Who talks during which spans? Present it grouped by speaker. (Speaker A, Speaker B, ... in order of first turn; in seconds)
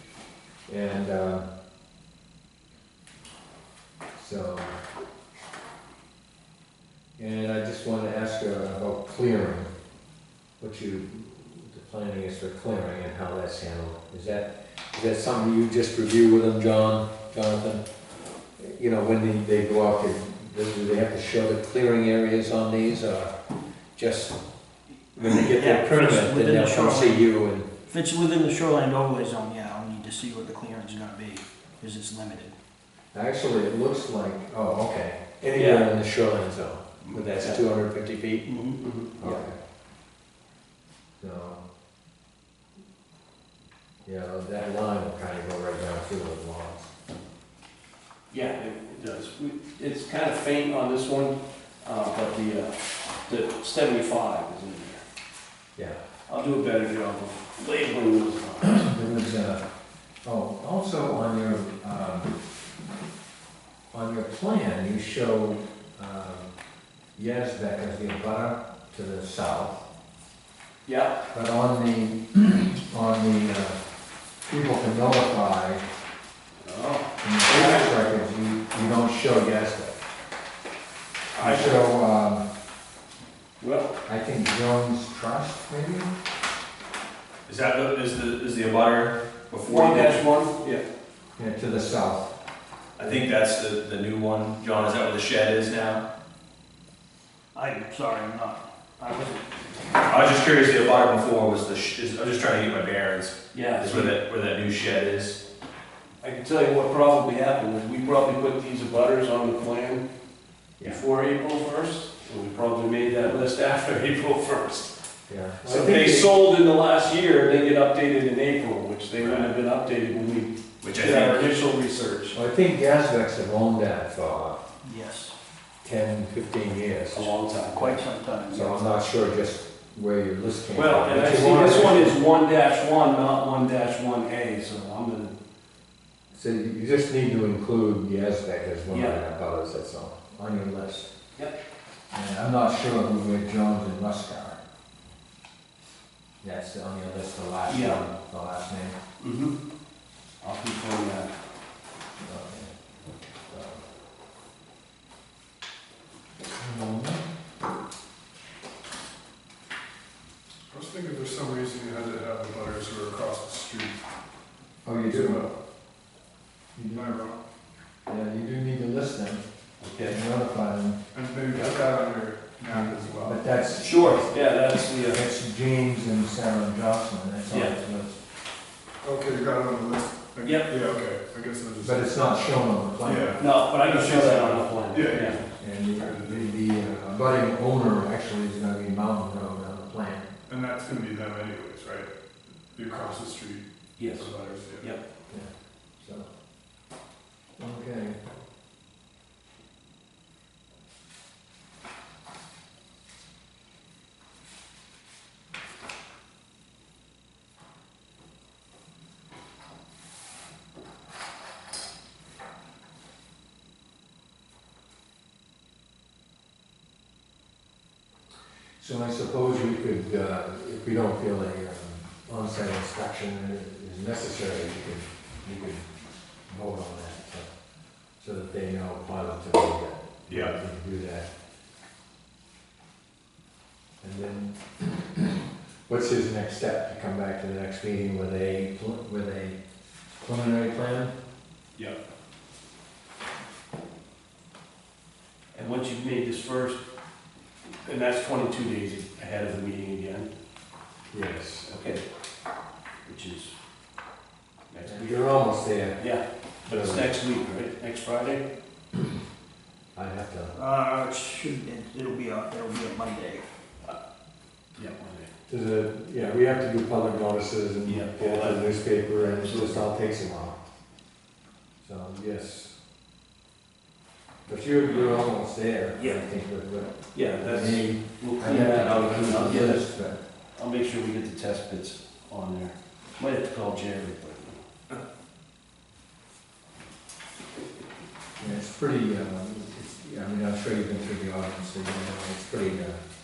Speaker A: 0.7-1.5, 4.2-4.8, 7.2-9.7, 10.6-17.8, 18.6-23.3, 23.9-24.4, 25.1-27.7, 33.1-38.5, 39.2-39.6, 41.2-41.6, 44.0-46.9, 58.6-59.6, 60.2-62.4, 63.9-66.5, 67.2-69.8, 71.3-73.8, 74.5-75.8, 77.2-80.0, 81.4-82.5, 84.1-86.1, 91.4-92.3, 93.0-93.3, 115.3-116.3, 122.3-124.6, 125.8-127.3, 128.5-132.2, 136.3-141.1, 142.1-144.6, 146.4-149.0, 152.2-152.8, 153.3-153.8, 156.6-157.2, 164.8-165.5, 166.8-167.2, 168.1-169.4, 170.0-171.0, 172.7-174.4, 175.0-178.2, 181.8-183.4, 185.6-190.3, 195.3-196.3, 197.6-198.2, 218.8-225.9, 226.5-227.5, 228.2-231.3, 234.0-239.6, 240.2-241.1, 251.1-251.9, 254.8-257.1, 259.9-260.6, 265.5-270.6, 271.8-272.7, 274.5-280.2, 288.4-293.0
Speaker B: 25.2-27.2, 27.9-32.5, 38.5-38.8, 97.5-99.5, 124.8-125.4, 127.7-128.9, 260.5-263.5
Speaker C: 35.5-35.9, 37.1-37.6, 38.8-39.4, 48.3-55.0, 56.3-58.8, 70.9-71.2, 76.6-78.0, 81.3-81.9, 83.6-84.0, 89.6-90.8, 103.5-104.2, 106.2-110.0, 110.8-114.9, 115.6-122.4, 127.1-128.0, 130.7-135.4, 138.9-139.2, 147.7-148.0, 149.2-149.6, 150.4-151.3, 169.8-170.2, 173.8-175.2, 177.5-177.8, 180.4-180.8, 183.4-185.4, 194.0-195.0, 245.5-246.8, 247.8-250.3, 251.6-252.1, 253.1-253.5, 254.7-255.4, 256.0-258.5, 264.8-265.3, 267.9-269.9, 276.0-276.2, 277.1-279.9, 280.6-284.6
Speaker D: 87.5-90.2, 93.0-96.0, 99.9-105.4, 119.2-119.5, 120.8-121.5
Speaker E: 160.7-164.0, 165.1-165.6, 166.9-167.4, 171.1-173.4, 179.0-186.5, 190.5-192.1, 192.7-195.0, 230.3-230.6